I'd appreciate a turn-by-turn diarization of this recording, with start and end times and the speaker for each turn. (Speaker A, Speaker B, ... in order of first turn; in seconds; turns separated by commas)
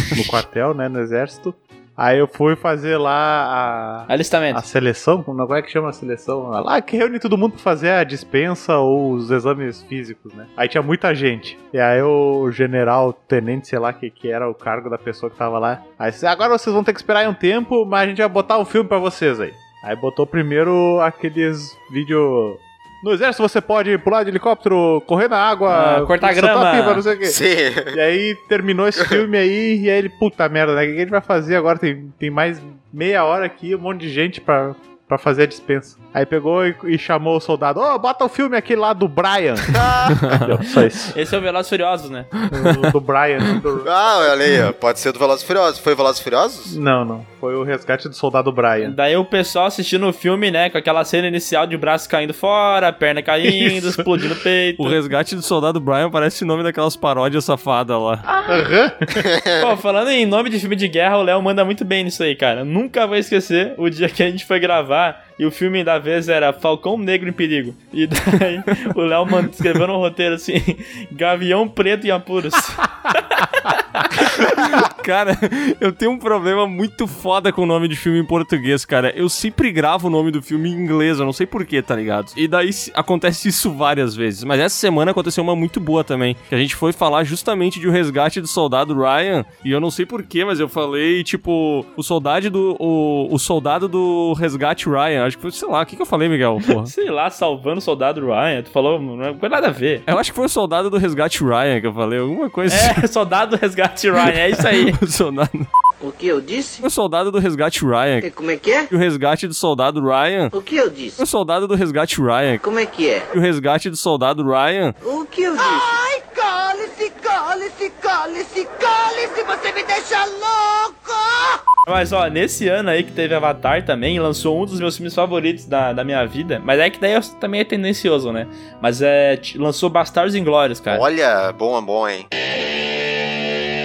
Speaker A: 0.1-27.4, Speaker B: 4.1-4.6, Speaker B: 25.7-27.0, Speaker C: 27.2-28.0, Speaker A: 27.9-41.1, Speaker C: 39.7-40.3, Speaker D: 40.2-40.5, Speaker B: 41.1-42.3, Speaker A: 42.5-44.4, Speaker D: 42.5-42.9, Speaker C: 43.8-46.8, Speaker A: 46.7-48.9, Speaker B: 48.8-55.0, Speaker A: 53.4-54.0, Speaker D: 54.8-58.2, Speaker A: 58.4-59.2, Speaker C: 59.2-59.7, Speaker B: 59.6-73.8, Speaker D: 74.5-96.9, Speaker B: 96.8-100.0, Speaker D: 100.1-103.0, Speaker B: 102.7-105.0, Speaker D: 104.5-105.7, Speaker E: 106.0-106.8, Speaker D: 106.8-108.3, Speaker E: 108.2-108.9, Speaker D: 108.9-110.5, Speaker E: 110.5-111.2, Speaker D: 111.2-112.6, Speaker E: 112.6-113.2, Speaker D: 113.3-115.0, Speaker E: 115.0-121.6, Speaker B: 121.9-131.0, Speaker C: 130.9-132.3